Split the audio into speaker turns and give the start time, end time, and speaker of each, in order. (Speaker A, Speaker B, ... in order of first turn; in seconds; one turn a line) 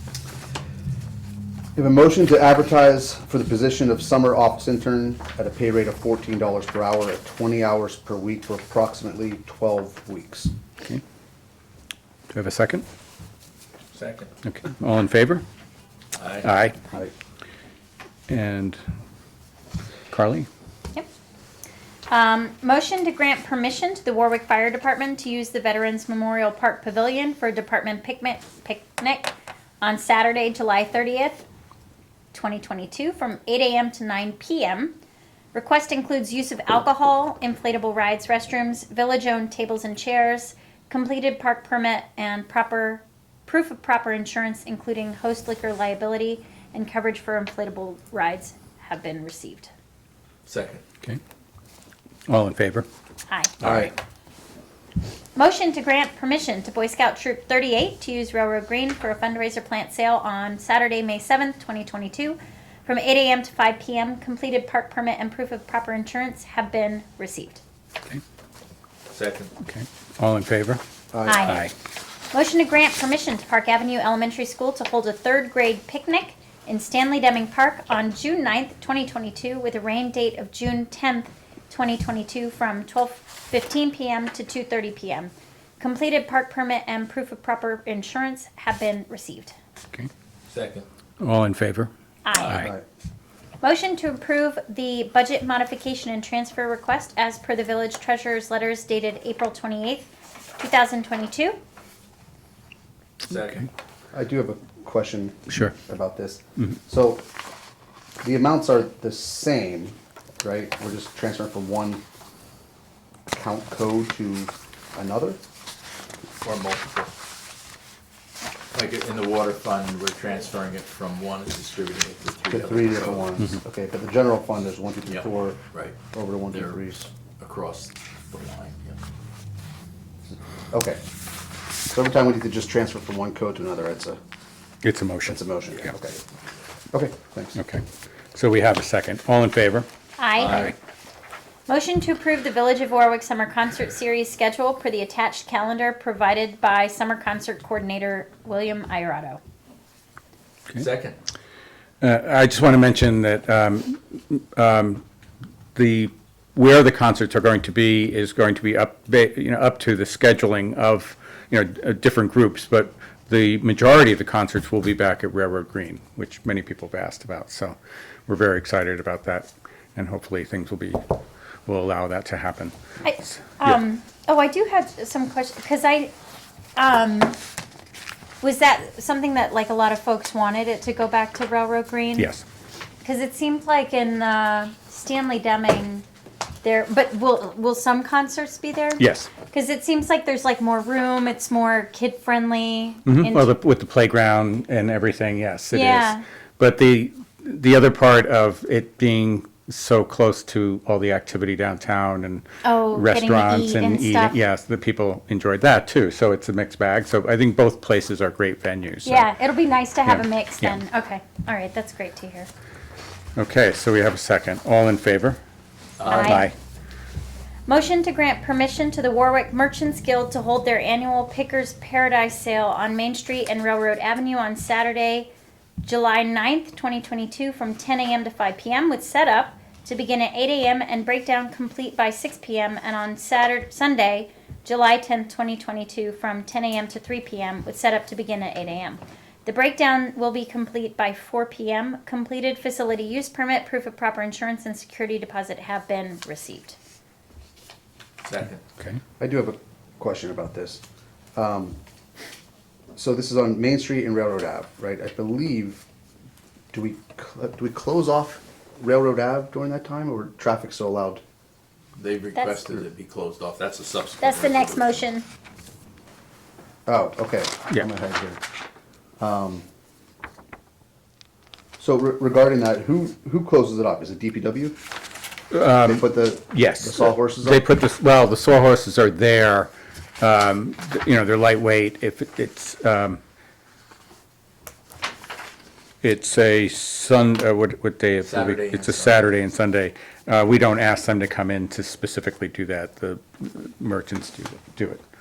Speaker A: 1.8-10.5
Speaker B: 12.3-12.8
Speaker C: 13.9-14.3
Speaker B: 14.4-15.4
Speaker C: 16.1-16.5
Speaker B: 16.4-16.8
Speaker B: 18.3-18.8
Speaker B: 20.1-20.5
Speaker D: 22.1-31.4
Speaker D: 32.3-35.0
Speaker D: 35.5-49.7
Speaker C: 50.5-50.8
Speaker B: 52.3-52.9
Speaker D: 53.3-53.9
Speaker B: 53.6-53.9
Speaker D: 55.4-67.6
Speaker C: 69.1-69.5
Speaker B: 69.6-70.8
Speaker A: 71.1-71.6
Speaker D: 71.3-71.7
Speaker B: 71.4-71.7
Speaker D: 72.3-89.5
Speaker C: 90.5-90.9
Speaker B: 91.2-91.9
Speaker D: 92.2-92.7
Speaker D: 93.6-101.6
Speaker C: 103.2-103.7
Speaker A: 104.1-107.2
Speaker A: 108.2-112.0
Speaker A: 113.3-115.4
Speaker C: 116.4-117.1
Speaker C: 118.7-123.3
Speaker A: 122.5-127.1
Speaker C: 125.1-126.0
Speaker C: 127.4-129.0
Speaker A: 130.7-131.0
Speaker A: 131.9-134.2
Speaker B: 134.8-135.4
Speaker A: 135.3-136.2
Speaker A: 136.9-137.6
Speaker B: 137.6-139.9
Speaker D: 140.2-140.7
Speaker D: 141.7-149.4
Speaker C: 150.7-151.2
Speaker B: 152.0-155.0
Speaker B: 155.8-167.8
Speaker B: 168.3-173.8
Speaker D: 173.0-176.1
Speaker D: 176.8-177.4
Speaker D: 178.4-182.3
Speaker B: 182.2-182.4
Speaker D: 183.0-186.1
Speaker D: 186.6-193.5
Speaker B: 189.0-189.3
Speaker B: 193.1-209.3
Speaker D: 195.7-196.2
Speaker D: 202.6-204.4
Speaker D: 209.1-212.5
Speaker B: 210.1-210.8
Speaker B: 213.4-215.4
Speaker C: 216.0-216.4
Speaker D: 216.1-216.5
Speaker B: 216.1-216.6
Speaker D: 217.7-225.3
Speaker D: 225.8-246.8
Speaker C: 248.2-248.6
Speaker A: 249.2-250.8
Speaker A: 251.3-251.8
Speaker A: 253.0-255.8
Speaker A: 256.7-261.2
Speaker C: 262.0-265.0
Speaker D: 262.4-262.6
Speaker D: 264.2-265.2
Speaker A: 266.9-268.4
Speaker A: 269.2-269.6
Speaker A: 271.8-274.8
Speaker B: 275.5-283.2
Speaker A: 275.8-277.6
Speaker B: 286.0-295.0
Speaker C: 288.2-289.3